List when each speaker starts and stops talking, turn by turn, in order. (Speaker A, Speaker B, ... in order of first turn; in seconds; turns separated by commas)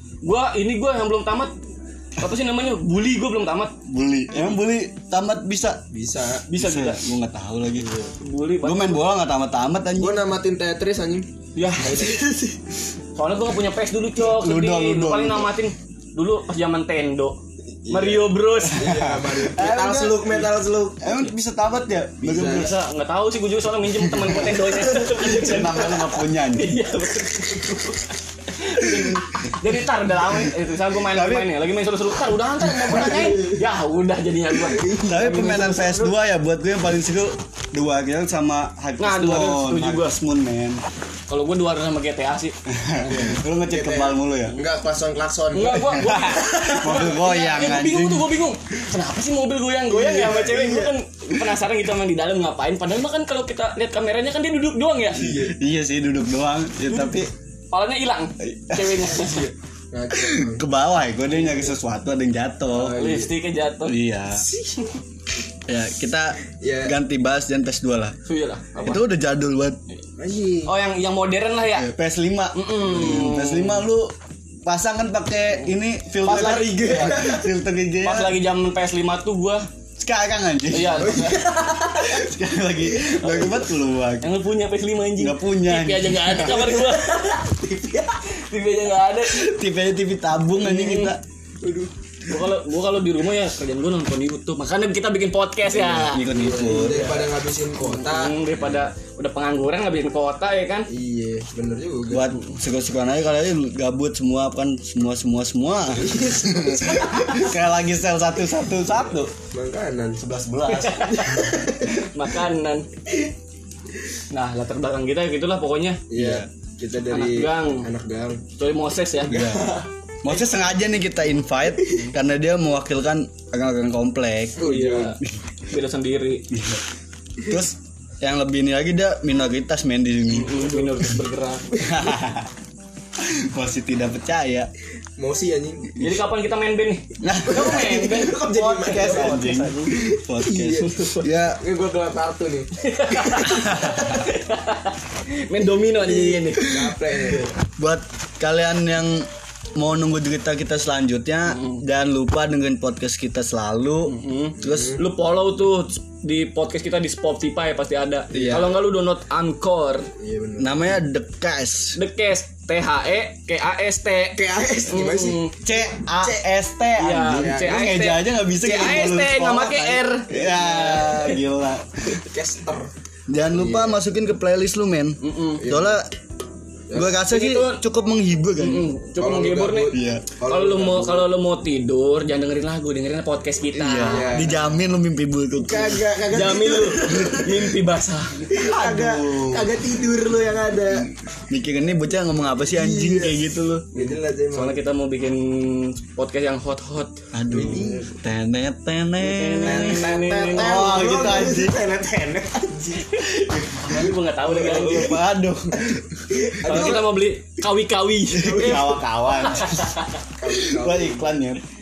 Speaker A: 0.2-1.5, Speaker A: 2.2-3.8, Speaker B: 3.9-5.8, Speaker C: 5.9-6.5, Speaker A: 6.5-7.0, Speaker B: 6.5-8.0, Speaker A: 8.2-9.1, Speaker B: 8.6-10.2, Speaker C: 10.0-11.3, Speaker A: 11.6-12.1, Speaker C: 11.8-12.6, Speaker A: 13.2-19.0, Speaker B: 14.2-15.6, Speaker C: 17.8-21.0, Speaker B: 18.7-20.5, Speaker B: 21.0-22.8, Speaker C: 22.2-22.7, Speaker A: 22.4-35.0, Speaker B: 23.9-26.8, Speaker B: 31.1-31.5, Speaker B: 32.8-33.3, Speaker C: 33.1-33.6, Speaker C: 34.7-36.2, Speaker B: 35.0-40.8, Speaker A: 39.0-40.2, Speaker A: 41.3-42.5, Speaker B: 42.7-44.6, Speaker C: 43.0-47.1, Speaker A: 45.5-55.3, Speaker B: 46.0-48.3, Speaker C: 49.9-51.0, Speaker C: 55.1-55.6, Speaker B: 55.2-57.3, Speaker A: 56.9-57.2, Speaker A: 57.7-59.5, Speaker B: 58.4-59.2, Speaker C: 59.1-60.6, Speaker B: 60.1-63.0, Speaker C: 62.7-63.3, Speaker A: 62.9-64.0, Speaker B: 63.9-64.5, Speaker C: 64.5-64.9, Speaker B: 65.7-68.2, Speaker C: 66.6-67.0, Speaker A: 68.2-69.0, Speaker B: 68.8-69.8, Speaker C: 70.2-70.7, Speaker A: 70.7-71.9, Speaker B: 71.7-74.1, Speaker A: 72.5-73.9, Speaker B: 74.7-78.4, Speaker C: 76.2-77.5, Speaker A: 76.7-77.0, Speaker A: 78.0-79.7, Speaker B: 80.0-84.3, Speaker A: 80.7-81.4, Speaker C: 81.0-82.2, Speaker A: 83.2-83.6, Speaker A: 84.2-87.5, Speaker B: 85.2-86.7, Speaker C: 86.6-88.2, Speaker A: 88.3-89.5, Speaker B: 89.2-91.2, Speaker A: 90.6-91.1, Speaker C: 91.6-91.9, Speaker A: 92.3-100.9, Speaker B: 95.7-97.1, Speaker C: 96.3-98.3, Speaker C: 100.9-102.3, Speaker B: 102.1-109.3, Speaker C: 105.9-107.5, Speaker C: 109.5-110.2, Speaker B: 110.2-111.1, Speaker A: 110.7-112.9, Speaker C: 110.9-112.0, Speaker A: 114.3-116.0, Speaker C: 116.1-118.4, Speaker B: 116.2-116.5, Speaker A: 117.1-117.9, Speaker A: 118.6-119.5, Speaker C: 119.2-119.9, Speaker B: 119.2-125.3, Speaker A: 121.9-122.1, Speaker C: 124.6-125.2, Speaker A: 124.6-126.5, Speaker B: 126.5-126.8, Speaker B: 127.5-131.1, Speaker A: 130.3-131.9, Speaker B: 131.8-132.5, Speaker B: 133.2-134.7, Speaker C: 135.2-135.9, Speaker A: 136.0-140.0, Speaker B: 137.2-141.6, Speaker C: 137.5-143.5, Speaker A: 140.8-141.3, Speaker A: 142.8-146.9, Speaker B: 143.5-144.2, Speaker C: 145.9-147.6, Speaker B: 147.8-155.0, Speaker A: 151.5-151.8, Speaker A: 154.1-160.1, Speaker C: 154.6-155.0, Speaker C: 158.3-158.7, Speaker C: 160.2-160.9, Speaker B: 160.6-162.0, Speaker A: 161.9-165.6, Speaker C: 164.4-165.4, Speaker B: 165.6-171.9, Speaker C: 166.0-166.4, Speaker A: 167.0-170.3, Speaker C: 167.3-168.0, Speaker C: 170.3-171.3, Speaker C: 172.2-172.9, Speaker B: 173.3-176.1, Speaker C: 173.5-174.0, Speaker A: 175.2-175.7, Speaker C: 175.6-176.0, Speaker C: 176.9-177.2, Speaker B: 176.9-178.9, Speaker A: 177.2-177.8, Speaker A: 178.6-184.5, Speaker C: 179.2-181.3, Speaker B: 179.9-180.3, Speaker B: 183.7-186.2, Speaker C: 184.0-184.6, Speaker C: 185.6-187.7, Speaker A: 186.3-188.5, Speaker C: 188.5-191.1, Speaker B: 188.6-189.7, Speaker B: 191.5-194.1, Speaker C: 192.7-193.4, Speaker C: 193.9-194.8, Speaker A: 194.5-197.2, Speaker B: 197.3-201.8, Speaker C: 197.5-198.1, Speaker A: 199.2-201.1, Speaker C: 199.6-203.1, Speaker A: 203.0-205.2, Speaker B: 203.4-206.0, Speaker C: 206.3-207.2, Speaker A: 206.6-210.2, Speaker B: 208.3-209.9, Speaker C: 208.4-209.0, Speaker C: 210.4-211.3, Speaker B: 210.5-211.6